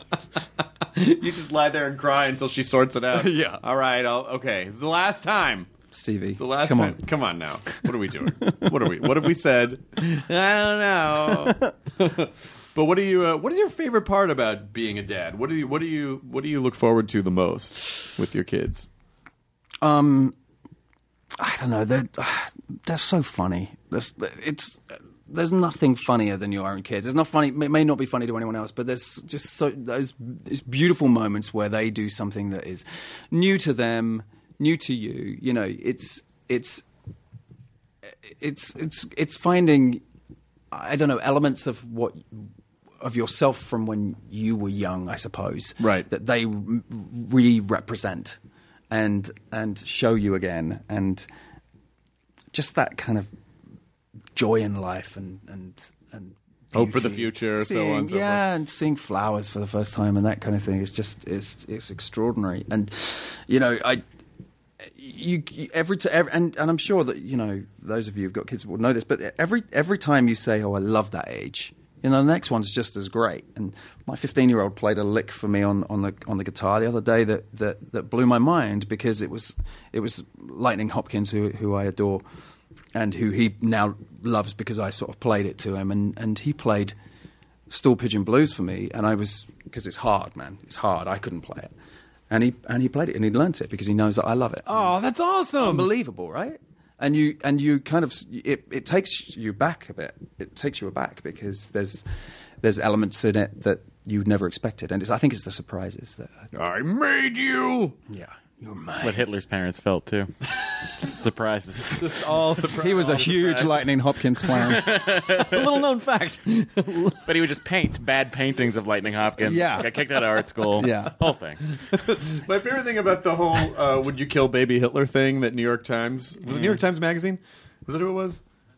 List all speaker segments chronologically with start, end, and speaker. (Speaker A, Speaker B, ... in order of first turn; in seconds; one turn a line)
Speaker A: 0.9-5.7
Speaker B: 3.1-3.6
Speaker B: 5.9-7.0
Speaker A: 6.4-18.9
Speaker B: 8.4-8.7
Speaker B: 19.8-20.3
Speaker B: 21.4-36.8
Speaker B: 38.2-40.0
Speaker B: 40.7-48.4
Speaker A: 45.8-46.1
Speaker B: 48.9-51.3
Speaker B: 52.5-53.3
Speaker B: 54.3-64.0
Speaker A: 56.7-58.4
Speaker B: 64.8-82.2
Speaker B: 82.9-86.9
Speaker B: 87.7-91.7
Speaker B: 92.3-94.9
Speaker A: 94.7-95.9
Speaker B: 95.6-102.0
Speaker B: 102.6-106.5
Speaker A: 106.5-108.0
Speaker B: 108.1-109.2
Speaker C: 109.0-110.3
Speaker C: 110.9-112.3
Speaker A: 111.9-113.9
Speaker B: 112.7-115.0
Speaker C: 113.2-113.8
Speaker C: 114.4-115.7
Speaker A: 115.2-117.2
Speaker C: 117.2-121.6
Speaker B: 119.4-120.1
Speaker B: 120.7-121.1
Speaker A: 121.9-128.4